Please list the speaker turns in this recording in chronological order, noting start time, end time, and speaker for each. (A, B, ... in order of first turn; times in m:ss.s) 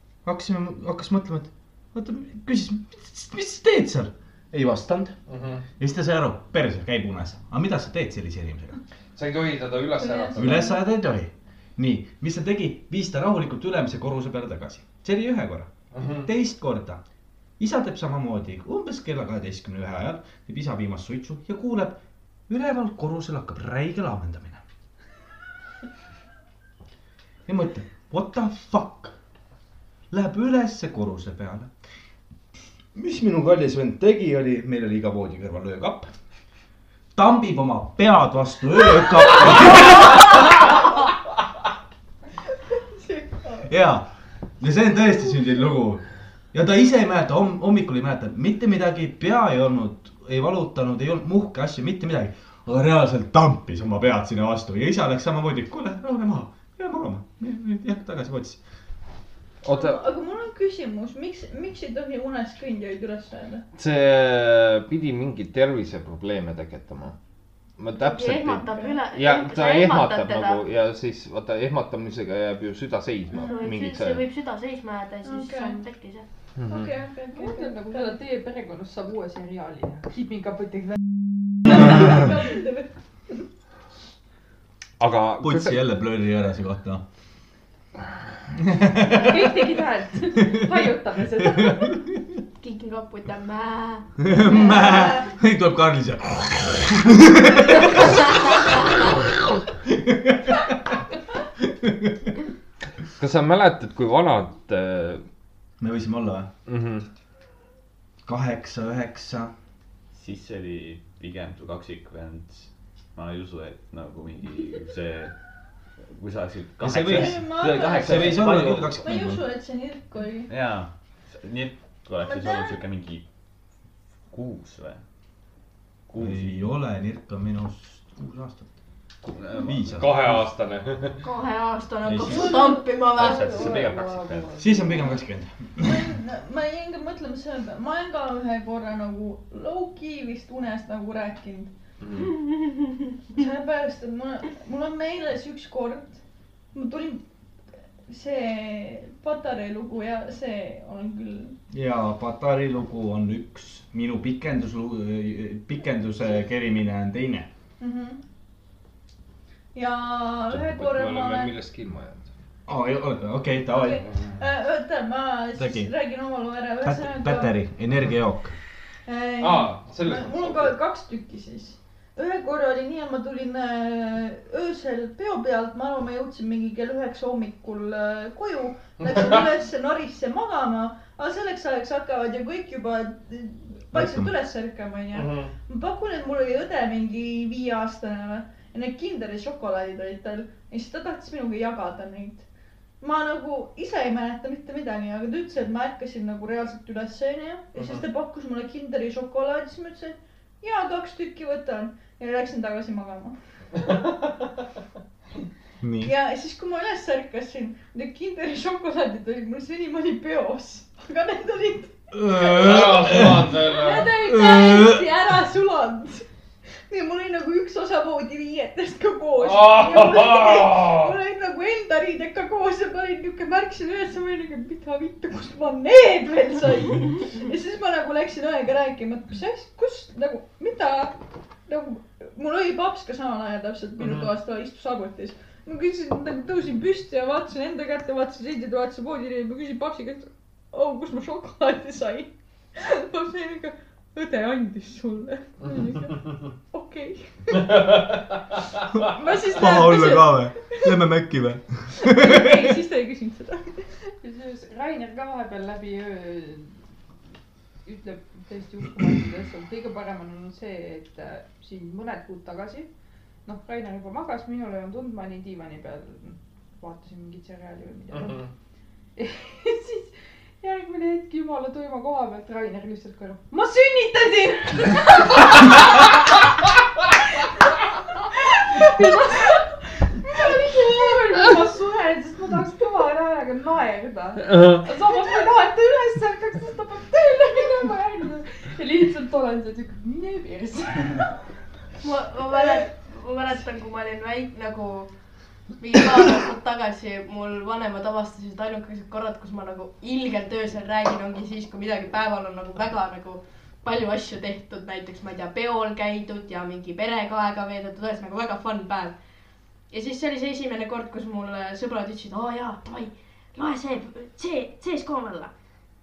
0:00.2-0:05.2 A
0:05.3-0:05.6 B
0:05.8-0:08.8 A
0:09.2-0:10.6 B
0:10.0-0:10.8 C
0:10.4-0:15.7 A
0:15.9-0:16.3 B
0:16.2-0:17.0 A
0:17.6-0:24.6 A
0:27.5-0:29.1 A
0:30.1-0:31.7 A
0:33.0-0:36.1 A
0:37.1-0:40.6 A
0:42.7-0:43.7 C
0:43.7-0:44.1 A
0:44.6-0:58.6 A
0:59.6-1:00.0 B
0:59.7-1:03.6 C
1:03.8-1:07.2 B
1:07.8-1:14.2 B
1:07.9-1:10.6 D
1:13.4-1:16.3 D
1:15.2-1:15.8 C
1:16.6-1:16.9 B
1:16.7-1:18.2 C
1:17.3-1:21.0 E
1:21.6-1:22.9 C
1:25.0-1:25.8 B
1:25.4-1:27.0 A
1:28.6-1:29.8 A
1:29.1-1:32.0 E
1:30.3-1:30.7 A
1:31.4-1:32.2 A
1:32.6-1:35.0 D
1:34.2-1:38.6 A
1:39.8-1:40.9 A
1:41.6-1:42.3 A
1:43.2-1:45.2 B
1:45.8-1:46.5 A
1:46.7-1:47.1 B
1:48.2-1:49.5 A
1:50.1-1:55.3 F
1:56.1-1:59.1 F
1:56.8-1:59.4 A
1:57.1-1:58.5 C
1:59.0-2:00.5 C
2:00.5-2:03.2 F
2:02.3-2:02.7 C
2:04.3-2:05.0 F
2:06.1-2:06.6 F
2:06.2-2:08.7 A
2:09.2-2:09.9 F
2:09.6-2:10.4 A
2:09.9-2:11.2 B
2:11.2-2:13.8 D
2:12.0-2:12.6 A
2:12.4-2:15.1 E
2:13.2-2:14.4 B
2:14.6-2:16.1 A
2:15.8-2:21.7 C
2:23.3-2:26.2 C
2:26.7-2:27.2 C
2:28.1-2:31.6 C
2:31.7-2:37.5 A
2:37.8-2:38.2 C
2:39.8-2:41.5 C
2:40.5-2:42.3 B
2:42.7-2:44.0 A
2:43.7-2:47.5 C
2:45.6-2:45.9 A
2:46.8-2:48.6 A
2:49.1-3:12.4 C
2:49.4-2:50.7 B
2:59.0-2:59.4 B
3:03.9-3:04.3 A
3:05.1-3:05.5 B
3:13.0-3:23.4 C
3:25.8-3:26.1 A
3:26.0-3:36.3 C
3:32.1-3:33.6 A
3:32.4-3:34.1 B
3:34.2-3:35.0 A
3:36.9-3:51.2 C
3:39.4-3:41.1 B
3:51.7-4:07.6 C
3:54.0-3:54.3 B
4:09.0-4:10.9 C
4:09.5-4:12.8 A
4:12.0-4:14.1 C
4:14.2-4:16.7 E
4:17.8-4:22.9 E
4:23.4-4:28.5 E
4:28.2-4:28.4 B
4:29.2-4:35.6 E
4:38.6-4:39.6 C
4:38.6-4:39.7 E
4:40.2-4:51.3 E
4:44.4-4:44.8 B
4:52.0-4:55.1 D
4:55.8-5:09.2 D
5:09.9-5:15.5 D